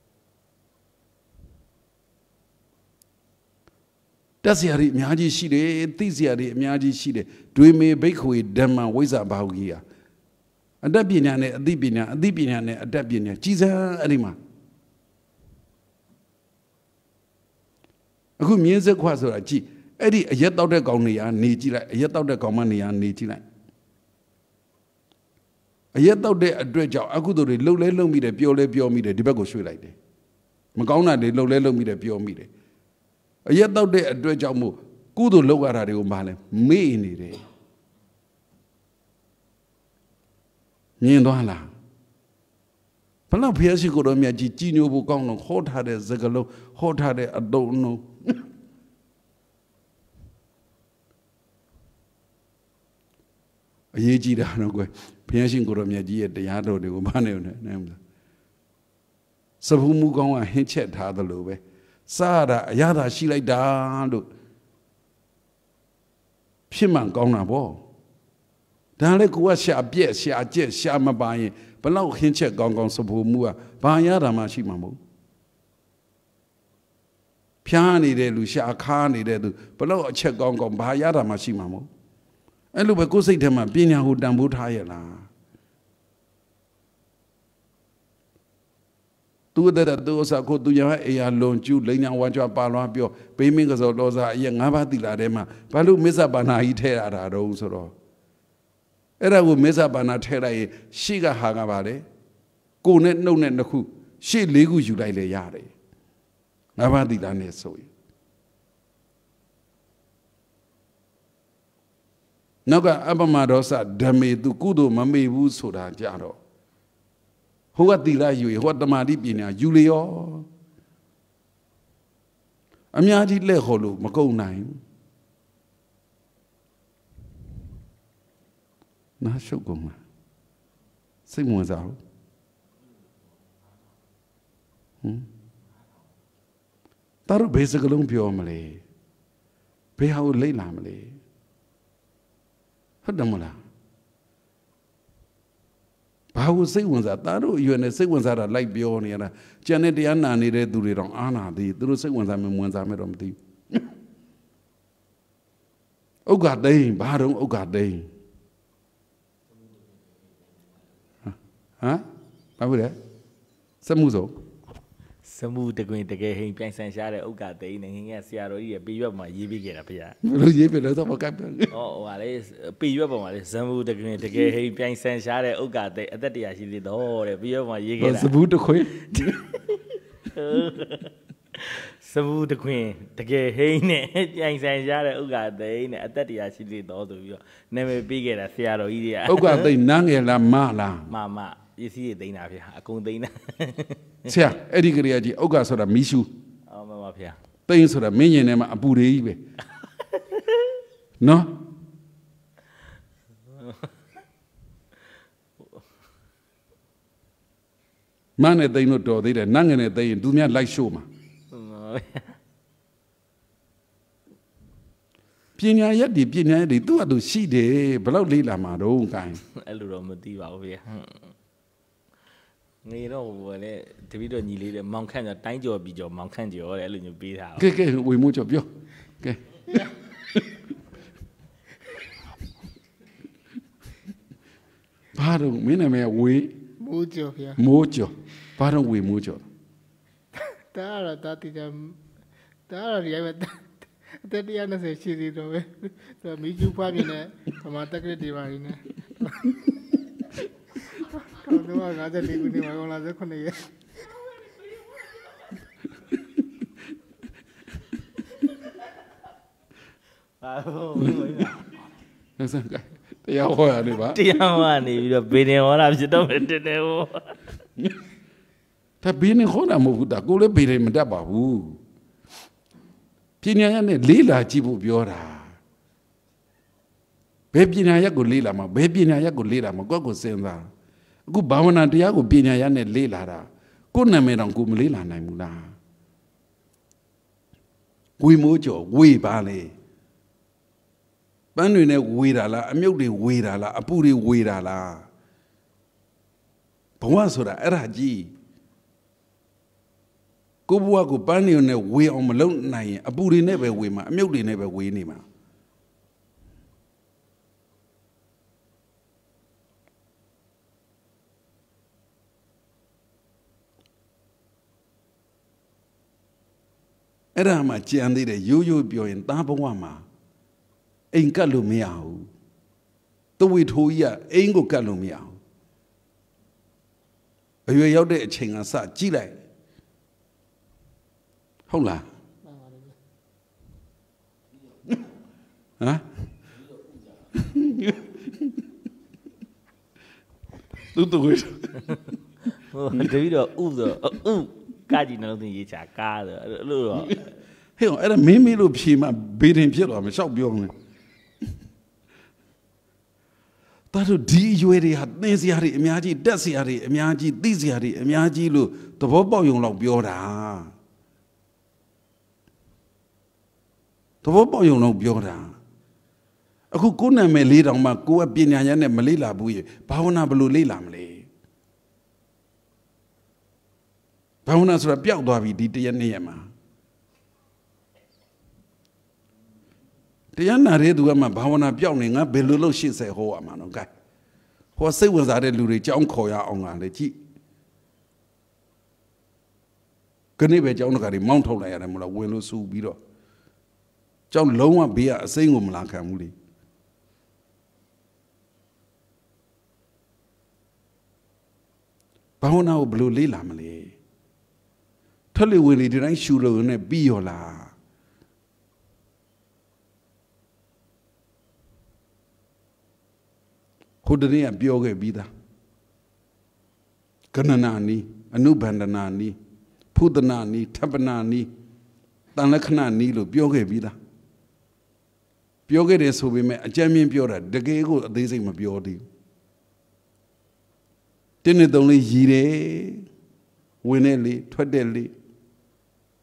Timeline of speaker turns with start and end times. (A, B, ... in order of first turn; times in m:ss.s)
0:04.4-0:09.8 A
0:10.8-0:14.4 A
0:18.4-0:23.4 A
0:26.0-0:30.0 A
0:30.8-0:32.5 A
0:33.5-0:37.4 A
0:41.0-0:41.7 A
0:43.3-0:48.4 A
0:53.9-0:58.0 A
0:59.6-1:04.3 A
1:06.7-1:07.8 A
1:09.0-1:15.0 A
1:17.6-1:21.9 A
1:22.7-1:25.3 A
1:29.5-1:37.9 A
1:39.2-1:42.0 A
1:42.8-1:45.7 A
1:46.8-1:47.9 A
1:52.7-1:56.4 A
1:57.8-2:00.5 A
2:02.9-2:04.8 A
2:09.2-2:10.0 A
2:11.3-2:12.0 A
2:17.3-2:18.8 A
2:20.0-2:21.2 A
2:23.0-2:23.6 A
2:26.3-2:33.8 A
2:36.3-2:38.1 A
2:41.3-2:42.0 A
2:42.6-2:43.0 A
2:43.8-2:44.4 A
2:45.2-2:50.2 B
2:50.2-2:51.7 A
2:51.7-2:58.3 B
2:58.0-2:59.6 A
3:00.3-3:09.7 B
3:09.3-3:11.1 A
3:11.1-3:14.2 B
3:14.3-3:16.3 A
3:16.7-3:17.4 B
3:17.7-3:19.4 A
3:20.0-3:20.8 B
3:21.2-3:21.6 A
3:23.5-3:23.9 B
3:28.4-3:31.1 A
3:31.5-3:32.4 B
3:35.6-3:39.4 A
3:39.5-3:41.3 B
3:42.8-3:47.7 B
3:47.6-3:49.4 A
3:55.2-3:56.6 A
3:56.8-3:57.6 C
3:57.6-3:59.4 A
4:00.4-4:02.0 C
4:02.7-4:09.4 C
4:11.2-4:13.8 C
4:20.4-4:21.7 B
4:22.4-4:24.2 A
4:23.9-4:27.4 B
4:29.0-4:31.8 A
4:33.4-4:35.6 A
4:37.5-4:40.7 A
4:41.3-4:45.8 A
4:48.2-4:49.7 A
4:51.6-4:55.1 A
4:57.0-4:58.3 A
5:00.7-5:05.2 A
5:17.4-5:20.0 A
5:21.1-5:22.3 A
5:23.4-5:25.4 A
5:27.7-5:29.4 A
5:31.7-5:32.1 A
5:32.4-5:33.0 C
5:35.8-5:36.2 A
5:37.3-5:38.6 A
5:40.9-5:42.0 A
5:42.7-5:47.3 B
5:47.8-5:50.7 A
5:53.9-6:00.7 A
6:04.2-6:05.6 A
6:06.7-6:11.3 A
6:14.5-6:16.5 A
6:20.4-6:23.9 A
6:24.8-6:27.2 A
6:30.4-6:33.0 A
6:34.3-6:36.3 A
6:42.4-6:44.0 A
6:45.3-6:47.7 A
6:54.0-6:55.3 A
6:57.3-6:59.4 A
6:59.9-7:01.5 A
7:02.4-7:04.0 A
7:05.7-7:09.0 A
7:11.4-7:13.1 A
7:13.8-7:15.1 A